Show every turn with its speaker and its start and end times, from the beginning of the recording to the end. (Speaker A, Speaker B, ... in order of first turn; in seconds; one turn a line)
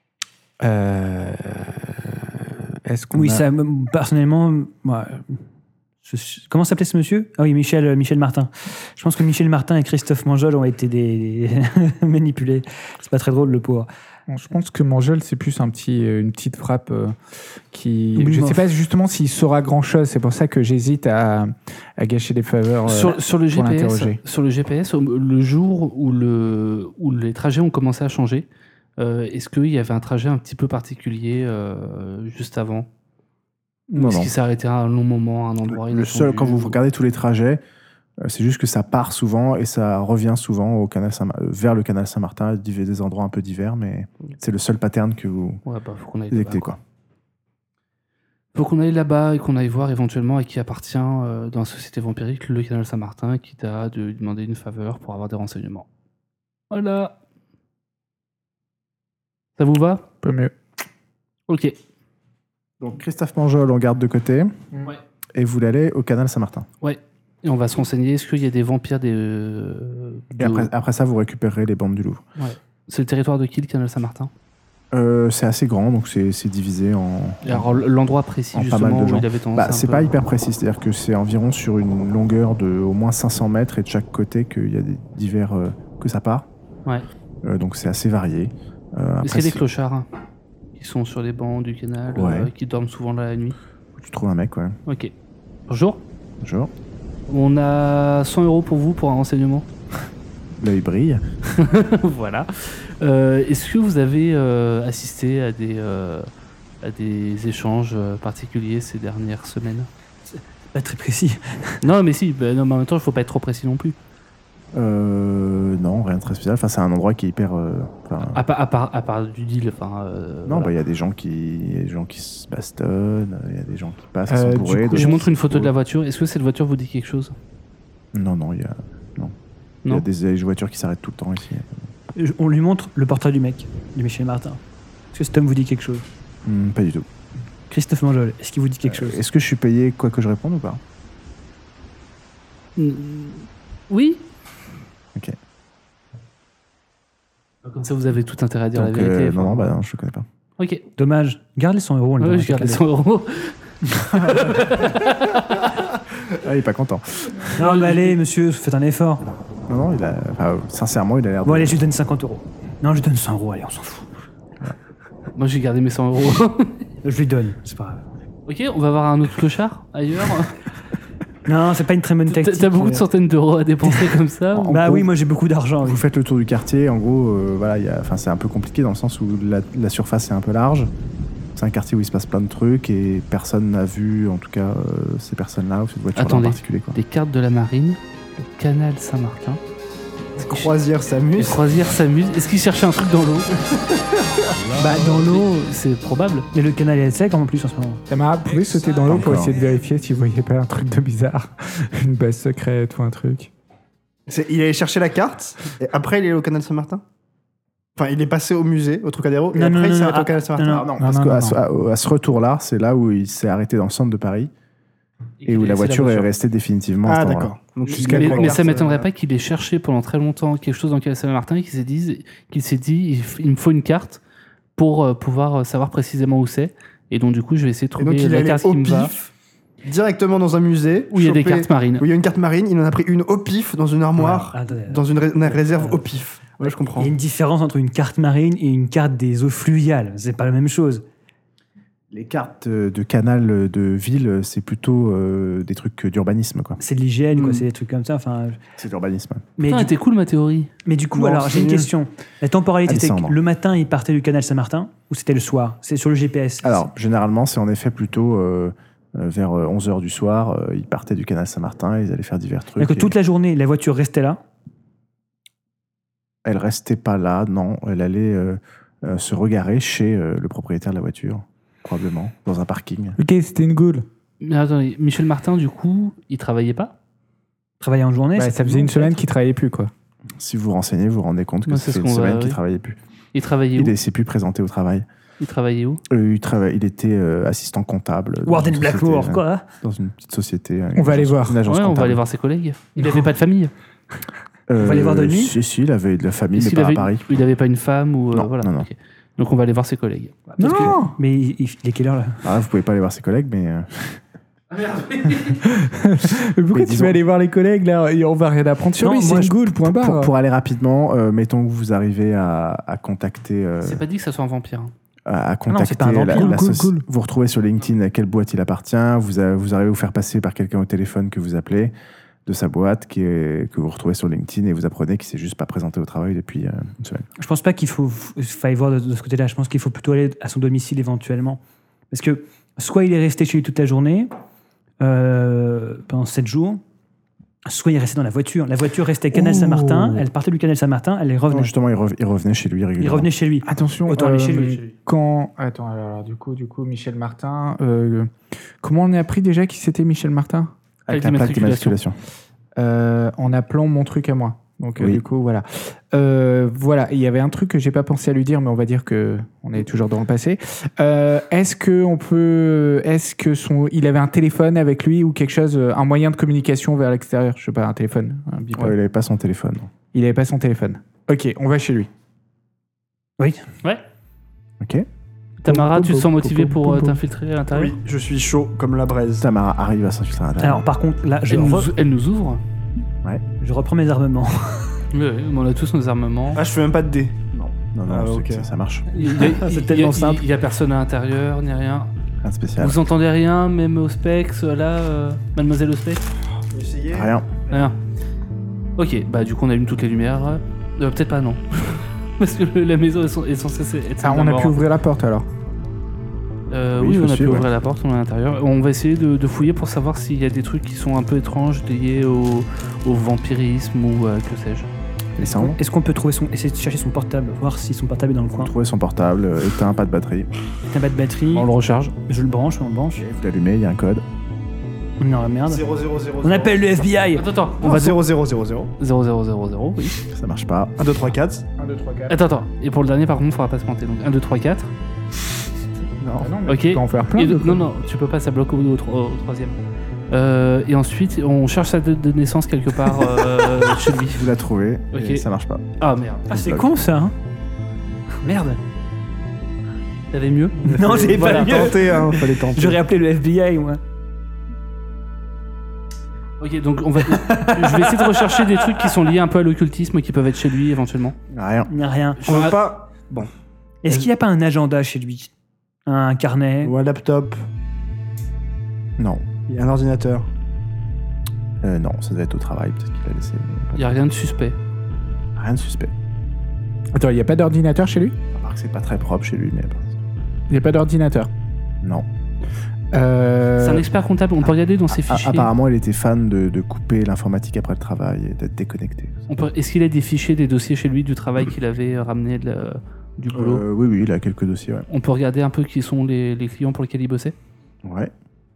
Speaker A: 0.6-3.4
Speaker B: 3.1-5.4
Speaker B: 6.0-13.9
Speaker A: 14.3-24.2
Speaker B: 18.1-18.7
Speaker C: 22.9-28.5
Speaker C: 29.0-32.9
Speaker D: 33.9-34.3
Speaker C: 34.0-36.8
Speaker D: 35.7-37.6
Speaker D: 38.2-45.6
Speaker C: 45.6-46.7
Speaker D: 46.3-46.8
Speaker C: 48.5-55.9
Speaker C: 56.7-57.2
Speaker C: 59.6-60.0
Speaker A: 60.2-60.5
Speaker C: 61.5-61.8
Speaker D: 62.8-64.5
Speaker D: 65.3-66.7
Speaker C: 66.8-70.7
Speaker D: 70.4-72.2
Speaker C: 72.4-74.3
Speaker D: 74.9-77.8
Speaker C: 77.4-80.1
Speaker D: 78.5-86.5
Speaker D: 87.4-89.6
Speaker C: 89.2-90.1
Speaker C: 90.8-93.6
Speaker D: 92.1-92.5
Speaker D: 94.0-94.8
Speaker C: 94.9-95.1
Speaker C: 95.7-96.0
Speaker D: 96.4-96.7
Speaker C: 97.3-99.7
Speaker D: 100.6-101.5
Speaker C: 101.6-106.3
Speaker C: 106.8-109.9
Speaker B: 110.3-111.8
Speaker C: 111.8-114.0
Speaker D: 114.7-118.4
Speaker C: 118.3-120.7
Speaker D: 120.5-125.7
Speaker A: 124.3-125.2
Speaker C: 124.9-127.3
Speaker D: 128.1-129.3
Speaker D: 129.9-131.8
Speaker B: 132.1-134.6
Speaker B: 135.1-136.1
Speaker D: 136.4-137.1
Speaker B: 137.7-139.2
Speaker D: 138.8-140.8
Speaker C: 142.8-144.2
Speaker C: 147.6-149.7
Speaker D: 148.7-150.2
Speaker C: 150.6-150.8
Speaker B: 151.0-152.8
Speaker C: 152.2-153.6
Speaker C: 154.1-155.7
Speaker D: 154.1-154.5
Speaker D: 156.2-157.5
Speaker B: 157.6-159.2
Speaker C: 157.6-158.2
Speaker D: 159.7-161.8
Speaker B: 161.4-164.1
Speaker C: 165.3-166.8
Speaker B: 167.0-168.0
Speaker C: 168.4-170.6
Speaker B: 171.4-173.1
Speaker C: 172.3-174.8
Speaker B: 173.8-176.0
Speaker D: 174.6-175.1
Speaker D: 175.8-180.9
Speaker D: 181.5-187.0
Speaker C: 186.1-189.6
Speaker C: 190.4-190.7
Speaker E: 190.4-191.6
Speaker C: 191.3-193.8
Speaker C: 194.8-196.5
Speaker B: 194.8-195.6
Speaker B: 196.5-198.0
Speaker A: 198.1-203.5
Speaker D: 199.1-199.5
Speaker E: 204.3-207.0
Speaker E: 207.9-210.8
Speaker B: 209.5-210.9
Speaker D: 210.6-214.5
Speaker A: 211.0-211.6
Speaker C: 215.4-216.3
Speaker D: 215.5-217.5
Speaker E: 217.0-219.1
Speaker B: 218.0-218.5
Speaker C: 218.0-224.2
Speaker D: 218.0-218.5
Speaker C: 224.8-229.1
Speaker E: 228.0-229.3
Speaker E: 229.8-237.1
Speaker C: 231.1-232.1
Speaker B: 234.2-236.0
Speaker B: 236.9-241.0
Speaker D: 242.1-246.8
Speaker B: 246.8-248.6
Speaker D: 248.8-249.4
Speaker B: 249.6-249.9
Speaker C: 249.6-250.7
Speaker B: 250.8-256.8
Speaker E: 251.1-251.9
Speaker D: 252.8-253.3
Speaker D: 256.6-263.1
Speaker B: 262.8-264.4
Speaker D: 266.4-273.2
Speaker A: 273.2-274.1
Speaker C: 274.4-276.9
Speaker B: 277.8-279.2
Speaker A: 278.4-279.9
Speaker D: 280.4-283.0
Speaker C: 281.7-282.6
Speaker C: 283.3-283.9
Speaker D: 283.8-285.0
Speaker C: 285.4-286.0
Speaker D: 286.1-292.2
Speaker B: 288.4-289.7
Speaker A: 290.9-291.6
Speaker C: 291.6-293.7
Speaker D: 294.7-297.3
Speaker B: 294.8-295.6
Speaker C: 296.5-300.5
Speaker D: 298.3-298.9
Speaker B: 300.5-302.5
Speaker A: 300.6-301.1
Speaker D: 302.4-304.2
Speaker C: 304.7-305.6
Speaker A: 305.6-310.3
Speaker D: 306.7-307.2
Speaker B: 309.0-309.5
Speaker D: 309.7-314.0
Speaker C: 313.8-314.9
Speaker D: 315.2-321.9
Speaker B: 315.7-316.6
Speaker A: 316.3-317.0
Speaker D: 322.4-327.3
Speaker B: 327.4-334.3
Speaker B: 335.0-336.8
Speaker B: 337.6-341.7
Speaker D: 339.3-340.1
Speaker D: 341.5-343.3
Speaker B: 343.0-344.8
Speaker A: 343.6-350.7
Speaker D: 351.1-352.1
Speaker C: 351.1-352.0
Speaker A: 352.8-368.9
Speaker D: 368.8-369.9
Speaker A: 370.1-372.1
Speaker B: 373.4-373.7
Speaker D: 374.8-375.1
Speaker C: 375.6-377.9
Speaker A: 375.6-377.2
Speaker E: 377.7-379.5
Speaker D: 379.4-380.9
Speaker B: 380.6-381.9
Speaker C: 381.5-382.6
Speaker B: 383.6-385.0
Speaker C: 385.1-386.6
Speaker E: 386.5-387.4
Speaker D: 387.5-389.4
Speaker E: 388.1-388.7
Speaker C: 389.1-392.1
Speaker B: 389.1-390.4
Speaker D: 392.4-393.0
Speaker C: 392.8-396.2
Speaker E: 396.7-397.8
Speaker D: 397.1-397.5
Speaker C: 397.7-397.9
Speaker C: 399.0-404.8
Speaker A: 404.2-405.5
Speaker C: 406.7-414.9
Speaker D: 406.9-407.7
Speaker D: 415.4-415.8
Speaker B: 415.4-418.7
Speaker D: 418.6-420.5
Speaker B: 420.9-421.7
Speaker C: 421.5-422.1
Speaker B: 422.2-423.2
Speaker D: 423.1-424.2
Speaker B: 425.2-427.5
Speaker E: 425.7-426.7
Speaker C: 427.4-428.2
Speaker E: 427.8-428.9
Speaker C: 429.0-430.2
Speaker D: 430.3-431.0
Speaker E: 431.0-431.6
Speaker A: 431.8-432.4
Speaker C: 432.3-434.9
Speaker D: 436.2-436.5
Speaker A: 436.4-437.9
Speaker C: 436.7-439.8
Speaker C: 440.3-444.4
Speaker D: 444.3-445.8
Speaker C: 445.1-445.4
Speaker C: 446.0-446.5
Speaker B: 446.5-447.3
Speaker D: 446.5-446.9
Speaker C: 448.4-448.8
Speaker C: 450.3-451.9
Speaker B: 450.8-454.0
Speaker E: 450.9-453.0
Speaker C: 456.6-461.4
Speaker B: 457.2-459.1
Speaker D: 461.5-461.9
Speaker B: 461.9-462.6
Speaker C: 462.4-462.8
Speaker E: 462.4-463.5
Speaker B: 464.0-465.5
Speaker B: 466.1-466.9
Speaker E: 466.8-467.6
Speaker D: 469.2-469.5
Speaker E: 469.7-470.5
Speaker D: 471.8-474.1
Speaker C: 473.9-474.8
Speaker D: 475.6-476.1
Speaker A: 477.1-478.4
Speaker D: 478.5-480.2
Speaker A: 480.7-481.5
Speaker A: 483.1-484.1
Speaker C: 483.8-485.7
Speaker D: 485.1-489.4
Speaker C: 489.5-493.8
Speaker D: 493.5-495.1
Speaker C: 495.1-497.5
Speaker D: 498.0-498.3